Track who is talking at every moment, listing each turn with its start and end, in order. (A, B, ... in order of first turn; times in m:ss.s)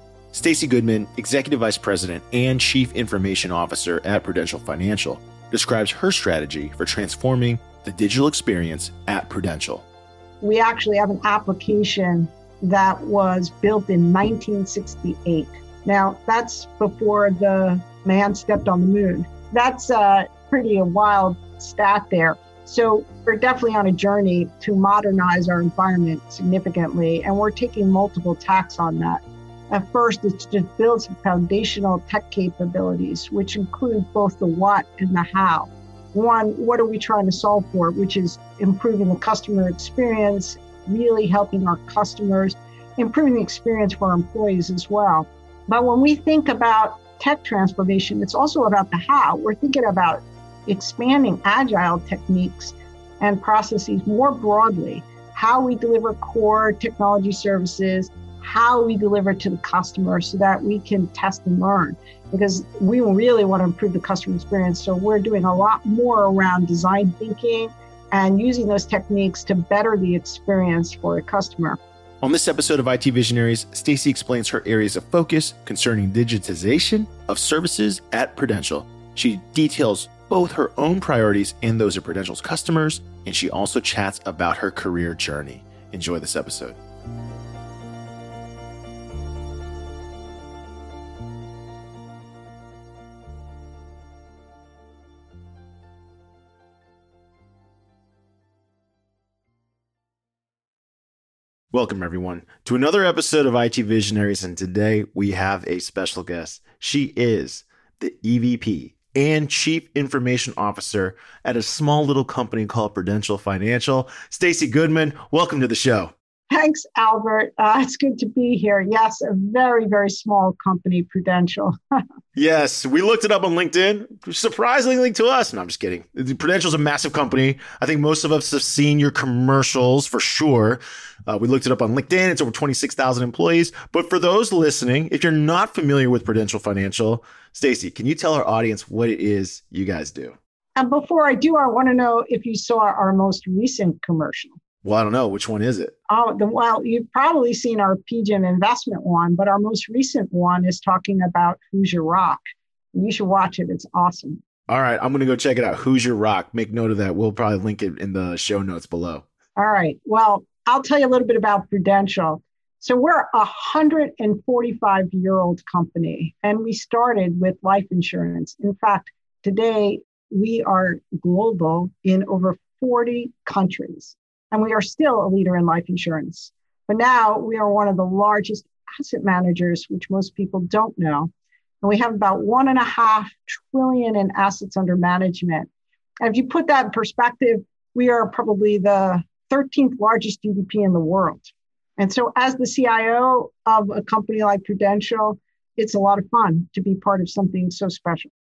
0:00.3-0:09.8 A
0:10.4-1:11.8 B
1:12.2-1:26.8 A
1:41.7-1:56.1 A
1:56.5-2:01.7 B
2:02.3-2:20.3 A
2:20.8-2:24.5 B
2:24.8-2:25.9 A
2:26.1-2:32.4 B
2:32.9-2:34.4 B
2:34.7-2:39.2 A
2:39.6-3:01.3 B
3:01.8-3:05.7 B
3:06.2-3:18.3 B